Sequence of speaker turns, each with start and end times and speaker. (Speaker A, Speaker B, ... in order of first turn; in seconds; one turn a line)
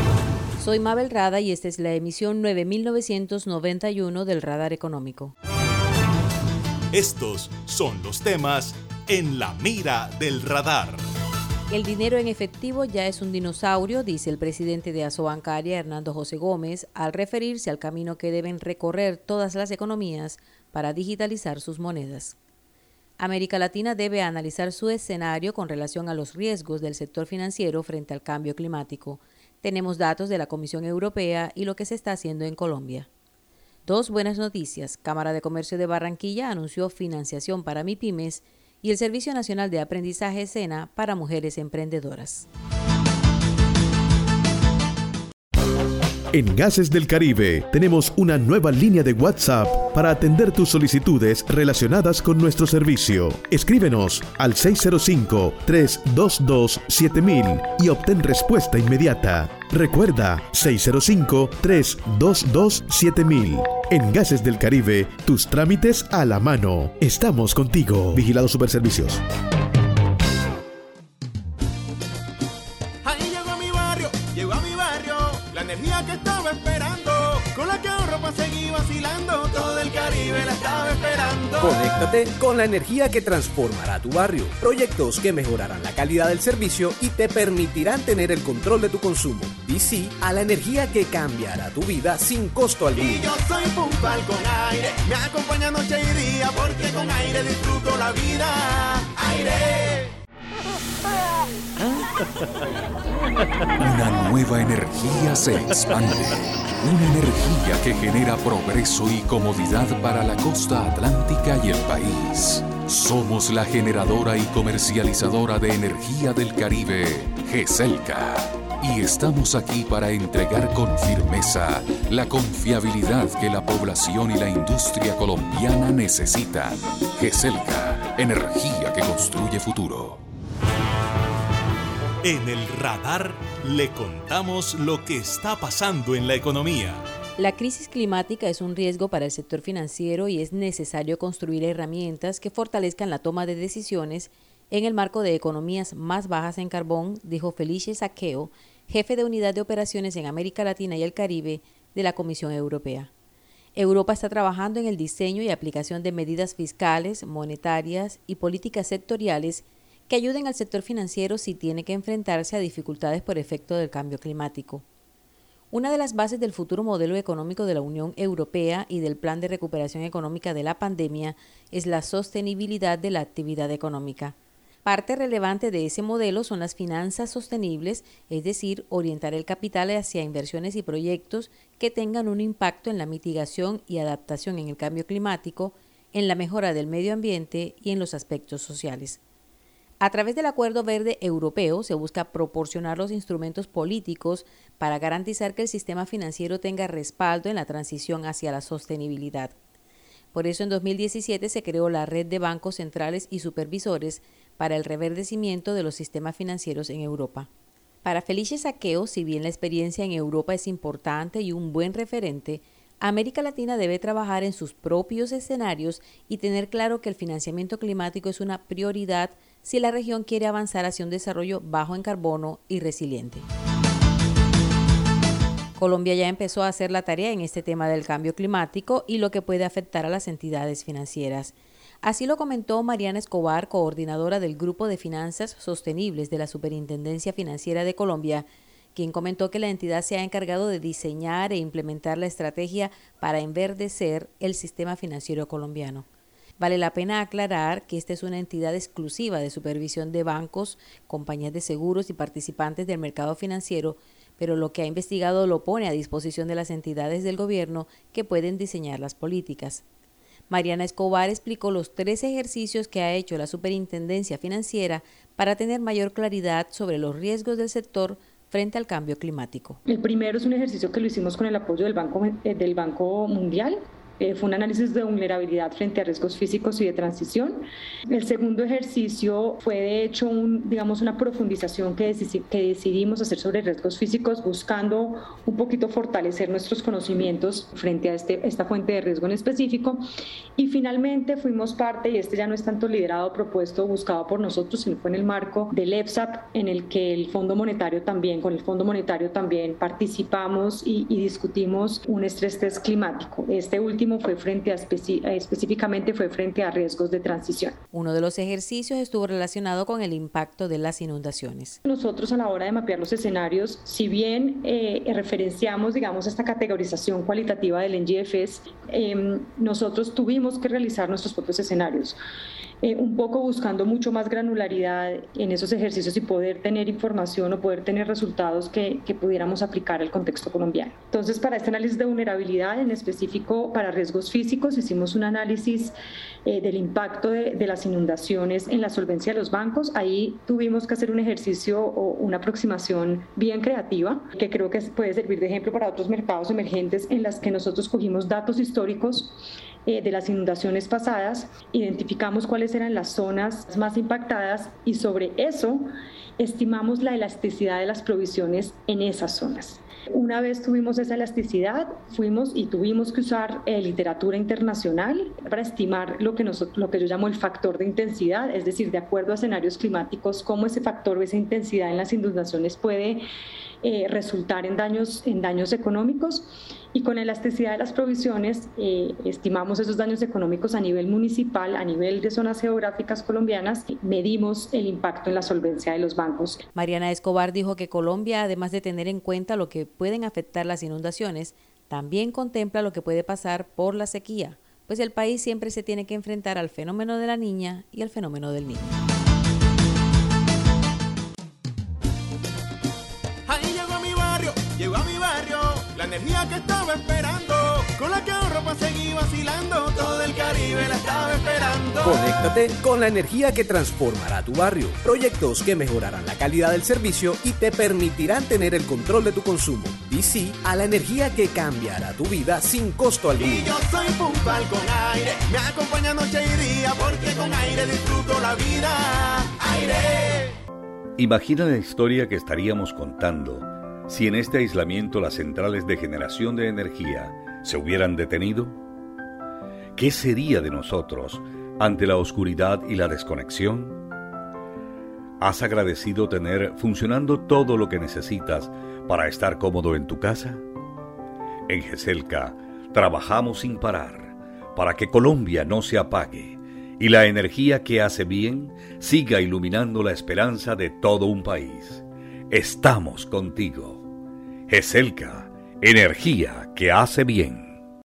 Speaker A: 0.6-5.3
Speaker B: 6.9-11.1
Speaker A: 11.7-22.4
Speaker A: 23.2-33.1
Speaker A: 33.9-42.5
Speaker C: 46.3-69.2
Speaker D: 73.0-81.8
Speaker E: 81.6-93.2
Speaker D: 93.0-100.1
Speaker F: 103.8-130.2
Speaker B: 132.2-137.1
Speaker A: 137.4-153.1
Speaker A: 153.8-164.8
Speaker A: 165.7-189.2
Speaker A: 190.0-199.5
Speaker A: 200.3-207.5
Speaker A: 208.0-223.5
Speaker A: 225.8-246.1
Speaker A: 246.6-259.8
Speaker A: 260.5-269.8
Speaker G: 269.9-290.0
Speaker G: 290.6-307.8
Speaker A: 307.9-311.8
Speaker G: 311.9-322.2
Speaker G: 322.8-335.9
Speaker G: 336.4-373.2
Speaker G: 373.8-386.6
Speaker A: 386.8-399.0
Speaker D: 403.5-412.2
Speaker E: 412.1-423.7
Speaker D: 423.7-430.5
Speaker H: 431.2-438.8
Speaker H: 439.9-444.0
Speaker H: 445.4-450.6
Speaker H: 451.7-464.1
Speaker H: 464.7-467.8